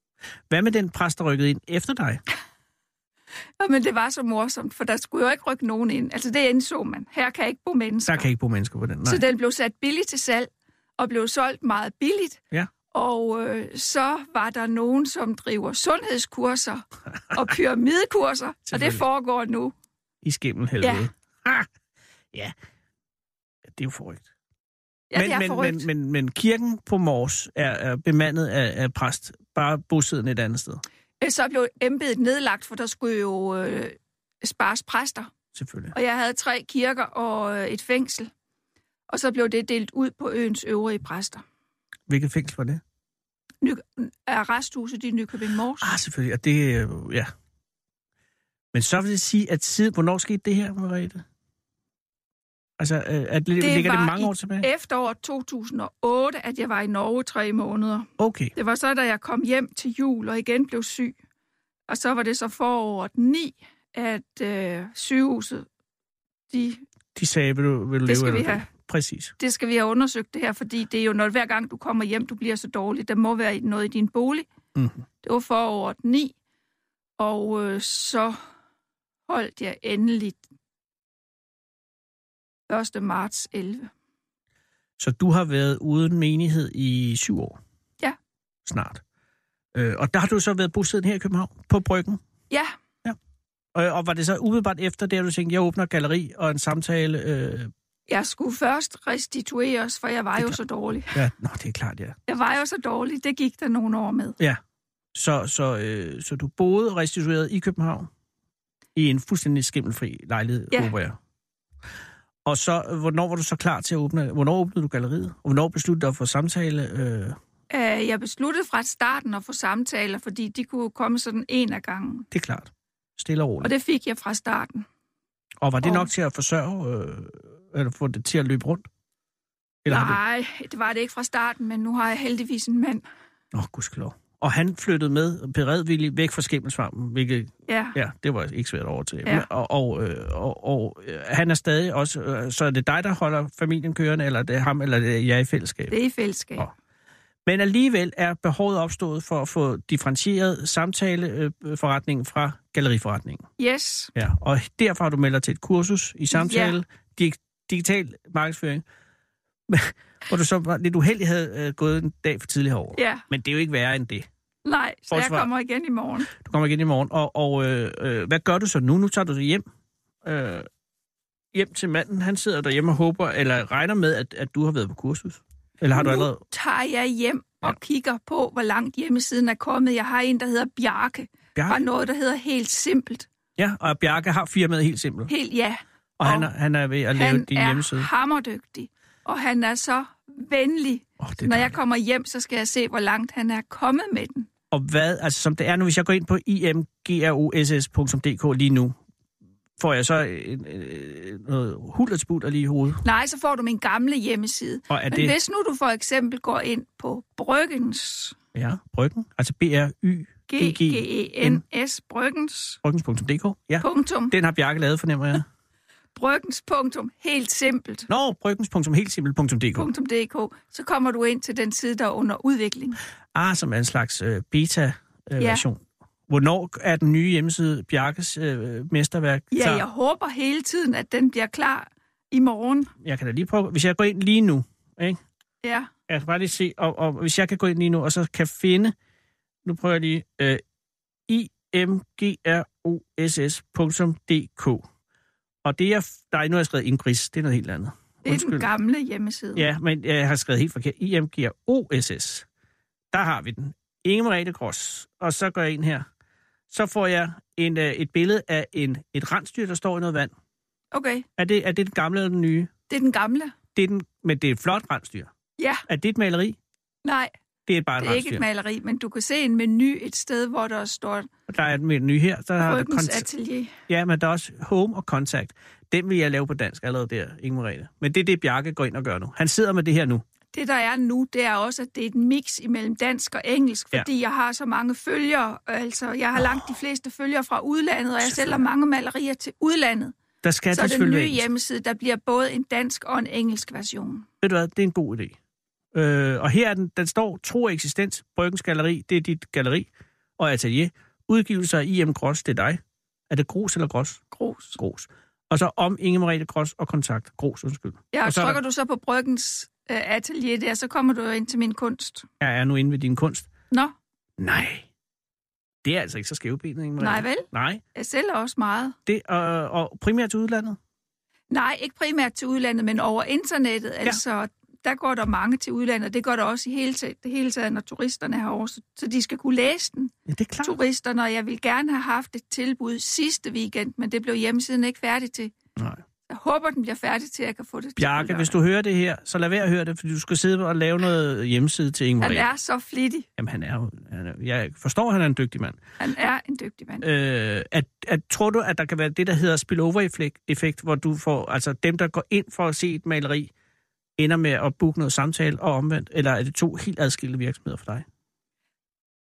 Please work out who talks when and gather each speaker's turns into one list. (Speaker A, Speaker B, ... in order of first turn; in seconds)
Speaker A: 0.5-2.2, 8.1-9.2, 18.7-19.0, 20.2-21.7, 23.7-24.3, 25.1-30.8, 35.5-35.9, 42.1-42.8, 45.8-47.3, 48.7-51.2, 52.8-54.7, 58.2-58.5, 67.1-69.3, 74.8-75.0, 85.0-87.6, 88.6-89.0, 89.7-92.2, 93.7-97.7, 101.1-102.2, 105.1-108.1, 109.0-111.2, 112.4-117.4, 122.3-123.7, 125.6-128.8, 129.8-130.2, 133.5-145.9, 147.4-153.5, 154.1-158.8, 159.7-164.3, 165.1-165.5, 166.3-169.6, 170.2-170.7, 171.5-176.4, 181.5-181.8, 183.6-185.3, 186.2-188.1, 191.2-191.8, 194.7-199.0, 199.8-203.0, 204.9-205.3, 208.5-211.6, 212.8-215.4, 218.1-219.9, 223.3-229.8, 233.0-235.2, 236.1-238.9, 239.6-240.6, 241.3-244.8, 245.6-248.7, 249.5-252.4, 253.1-256.1, 256.7-260.3, 261.4-262.7, 263.7-265.3, 265.9-266.6, 267.7-268.4, 271.5-273.3, 273.9-280.2, 286.4-286.7, 288.2-288.6, 290.4-291.4, 294.4-295.3, 295.9-304.2, 304.8-308.6, 312.4-313.5, 314.4-314.9, 315.8-317.8, 319.1-320.8, 330.3-330.8, 335.8-336.0, 338.0-342.5, 343.4-345.8, 347.0-353.5, 354.2-358.1
Speaker B: 3.6-8.3, 9.0-19.7, 20.8-21.1, 25.1-25.9, 31.2-35.3, 35.9-38.3, 39.1-41.4, 43.6-45.9, 53.6-61.1, 61.9-65.7, 66.5-66.8, 68.0-68.7, 69.4-74.5, 75.2-76.3, 77.2-78.3, 79.3-80.4, 82.7-83.9, 98.1-101.2, 102.3-104.4, 117.7-122.3, 123.6-124.9, 125.8-126.1, 129.8-133.0, 137.7-138.0, 145.9-146.7, 153.6-154.1, 156.3-156.8, 162.9-163.2, 164.6-166.3, 175.9-183.3, 185.3-186.5, 187.1-194.5, 203.0-208.3, 210.5-212.8, 213.8-214.3, 216.1-218.1, 219.8-223.0, 225.4-225.6, 229.5-232.9, 235.6-235.9, 248.2-249.7, 260.9-261.3, 262.9-263.6, 265.6-265.8, 267.0-267.3, 268.0-271.3, 272.6-273.7, 280.5-290.1, 290.7-294.3, 304.3-304.8, 308.1-312.3, 317.0-319.0, 321.5-335.5, 336.3-338.6, 342.2-343.3, 346.0-347.1